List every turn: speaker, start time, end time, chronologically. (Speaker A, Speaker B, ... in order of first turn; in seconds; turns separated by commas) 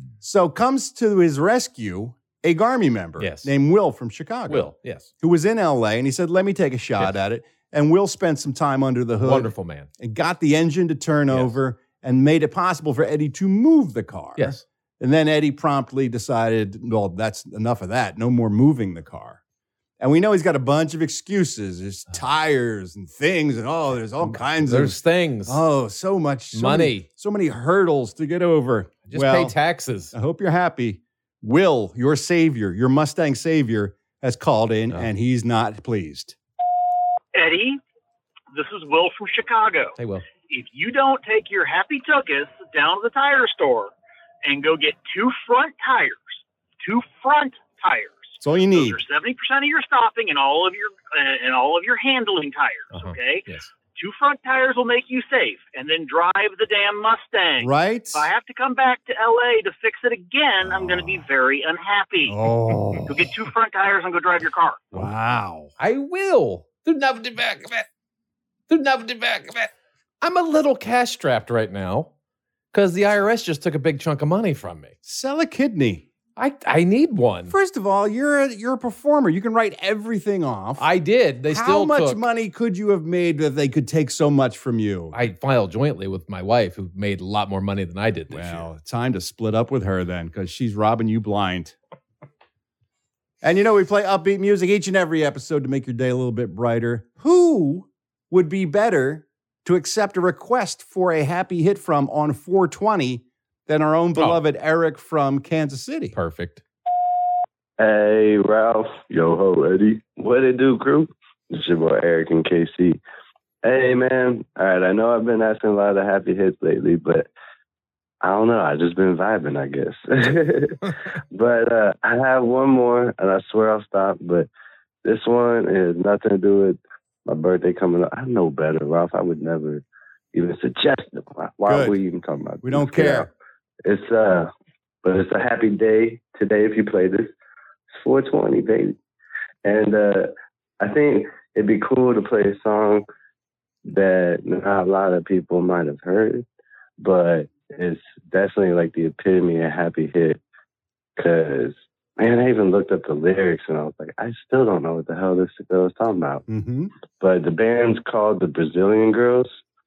Speaker A: 0.2-19.4, Speaker B: 3.2-3.5, Speaker B: 4.5-5.1, Speaker B: 9.2-9.9, Speaker B: 11.3-11.6, Speaker B: 14.4-14.6, Speaker A: 20.0-29.6, Speaker B: 24.2-25.6, Speaker B: 26.5-27.1, Speaker B: 29.1-30.1, Speaker A: 30.1-36.4, Speaker C: 37.3-37.8, Speaker C: 38.5-43.9, Speaker B: 40.0-40.3, Speaker C: 44.4-62.4, Speaker A: 48.4-49.0, Speaker B: 52.9-53.7, Speaker A: 57.6-58.3, Speaker A: 60.6-61.3, Speaker A: 62.3-63.3, Speaker C: 63.1-64.9, Speaker A: 64.9-65.7, Speaker B: 65.8-67.8, Speaker B: 68.7-69.7, Speaker B: 70.2-72.1, Speaker B: 72.7-75.0, Speaker A: 75.0-76.1, Speaker B: 76.4-77.5, Speaker A: 77.5-80.9, Speaker B: 80.8-82.2, Speaker A: 81.5-85.2, Speaker B: 85.1-88.7, Speaker A: 88.3-91.8, Speaker A: 93.4-106.2, Speaker B: 106.1-106.6, Speaker D: 107.8-113.0, Speaker D: 113.6-117.3, Speaker D: 118.2-120.8, Speaker D: 121.3-124.5, Speaker D: 125.0-129.8, Speaker D: 130.3-133.3, Speaker A: 131.7-132.0, Speaker A: 132.6-133.3, Speaker D: 133.8-134.5, Speaker D: 135.0-137.3, Speaker D: 137.9-139.0, Speaker D: 139.7-143.1, Speaker D: 143.9-146.4, Speaker D: 147.0-150.4, Speaker D: 151.2-156.4, Speaker A: 156.5-156.9, Speaker D: 157.2-159.5